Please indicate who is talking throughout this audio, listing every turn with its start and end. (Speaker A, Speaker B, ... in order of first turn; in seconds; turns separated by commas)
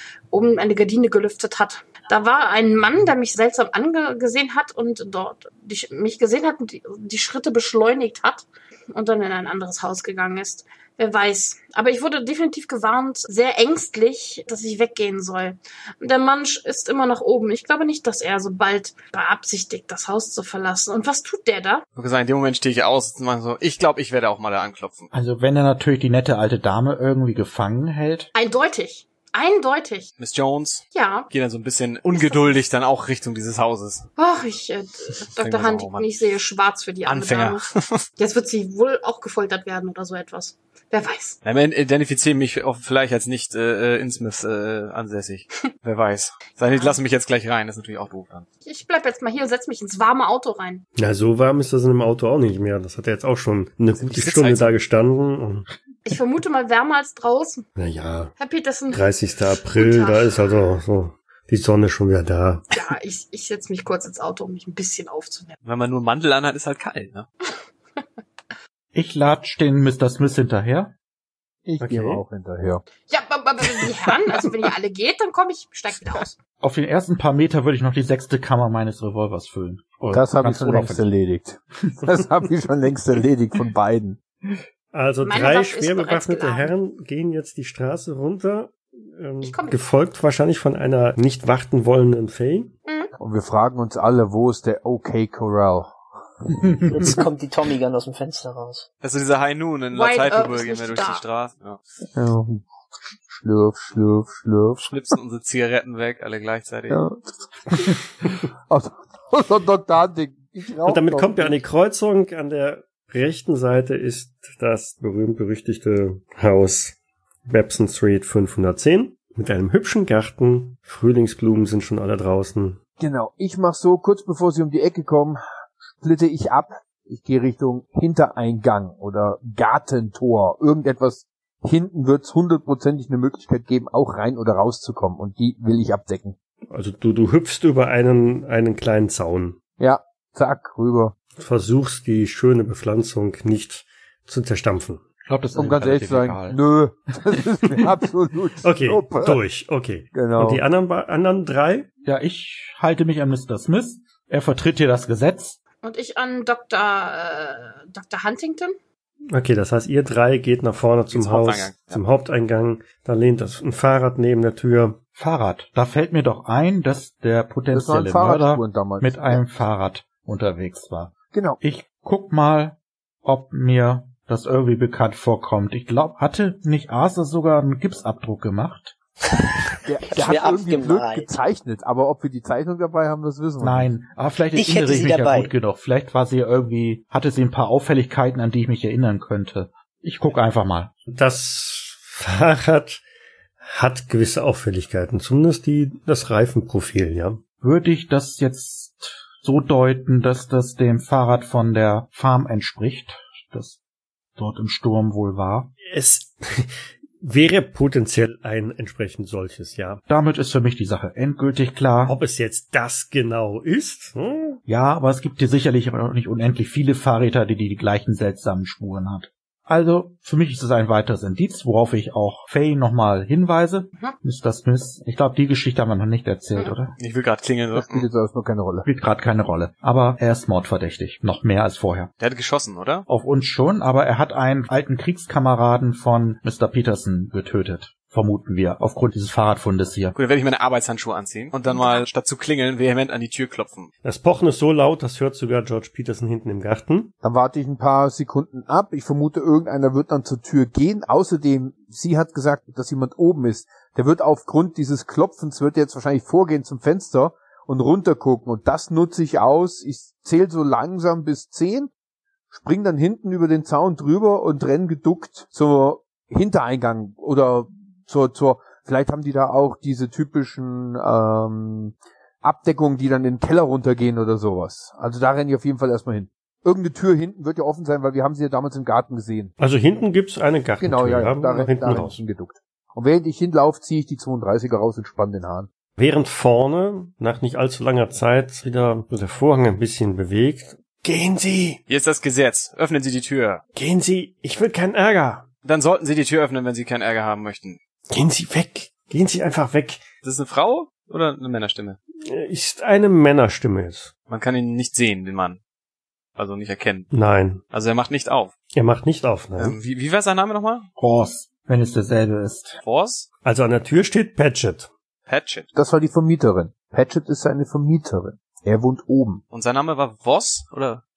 Speaker A: 0.3-21.9, Speaker B: 22.0-25.1, Speaker C: 25.1-28.3, Speaker A: 28.3-30.1, Speaker B: 30.2-34.1, Speaker A: 30.9-31.3, Speaker A: 32.1-32.6, Speaker A: 34.2-41.4, Speaker B: 35.4-36.1, Speaker B: 37.0-38.1, Speaker B: 41.4-48.5, Speaker A: 46.7-47.0, Speaker A: 48.6-50.9, Speaker D: 51.0-55.7, Speaker B: 54.0-54.8, Speaker A: 56.1-57.7, Speaker D: 57.8-58.3, Speaker A: 58.4-59.0, Speaker D: 58.9-62.8, Speaker A: 59.8-60.3, Speaker A: 62.7-65.6, Speaker B: 65.7-67.3, Speaker C: 68.9-70.9, Speaker E: 71.7-72.9, Speaker D: 71.8-72.2, Speaker A: 73.1-76.4, Speaker C: 76.6-81.1, Speaker E: 80.1-84.2, Speaker D: 84.9-92.7, Speaker A: 85.2-86.7, Speaker A: 89.4-89.8, Speaker A: 92.9-93.1, Speaker E: 93.2-97.1, Speaker F: 96.9-98.9, Speaker B: 99.0-101.8, Speaker A: 99.9-101.2, Speaker E: 102.2-102.7, Speaker E: 103.3-104.9, Speaker B: 104.8-107.0, Speaker E: 106.9-111.6, Speaker D: 110.8-122.8, Speaker E: 123.0-136.4, Speaker D: 136.7-139.6, Speaker E: 139.8-141.2, Speaker D: 141.4-145.0, Speaker C: 145.3-146.6, Speaker E: 145.6-149.4, Speaker D: 148.6-151.9, Speaker E: 150.1-150.6, Speaker C: 152.0-155.6, Speaker A: 155.8-158.8, Speaker D: 159.3-165.0, Speaker B: 161.1-162.0, Speaker C: 165.2-179.0, Speaker E: 167.7-169.4, Speaker E: 171.3-171.6, Speaker E: 179.8-183.9, Speaker F: 180.1-181.4, Speaker C: 183.6-191.0, Speaker F: 184.5-185.5, Speaker D: 191.1-193.0, Speaker D: 193.6-197.4, Speaker C: 197.6-203.8, Speaker C: 204.4-205.7, Speaker D: 205.9-210.0, Speaker C: 210.1-212.2, Speaker D: 212.1-214.6, Speaker C: 214.7-226.9, Speaker B: 227.0-228.1, Speaker E: 227.8-228.9, Speaker C: 228.9-232.1, Speaker B: 232.2-233.1, Speaker C: 233.1-240.2, Speaker B: 240.2-243.9, Speaker A: 241.7-242.1, Speaker D: 244.0-247.1, Speaker E: 247.2-261.9, Speaker E: 262.5-279.5, Speaker D: 279.6-282.2, Speaker E: 280.8-285.7, Speaker D: 286.0-291.8, Speaker B: 291.9-293.6, Speaker D: 293.8-295.5, Speaker B: 295.6-297.8, Speaker D: 298.1-300.0, Speaker B: 300.2-302.0, Speaker D: 302.3-304.1, Speaker B: 304.3-305.6, Speaker B: 306.4-307.1, Speaker D: 307.1-307.6, Speaker B: 307.7-308.6, Speaker D: 308.7-309.8, Speaker B: 309.6-310.9, Speaker C: 311.0-312.8, Speaker B: 312.8-313.3, Speaker D: 313.4-314.9, Speaker B: 315.3-315.7, Speaker E: 315.8-319.4, Speaker B: 319.5-321.0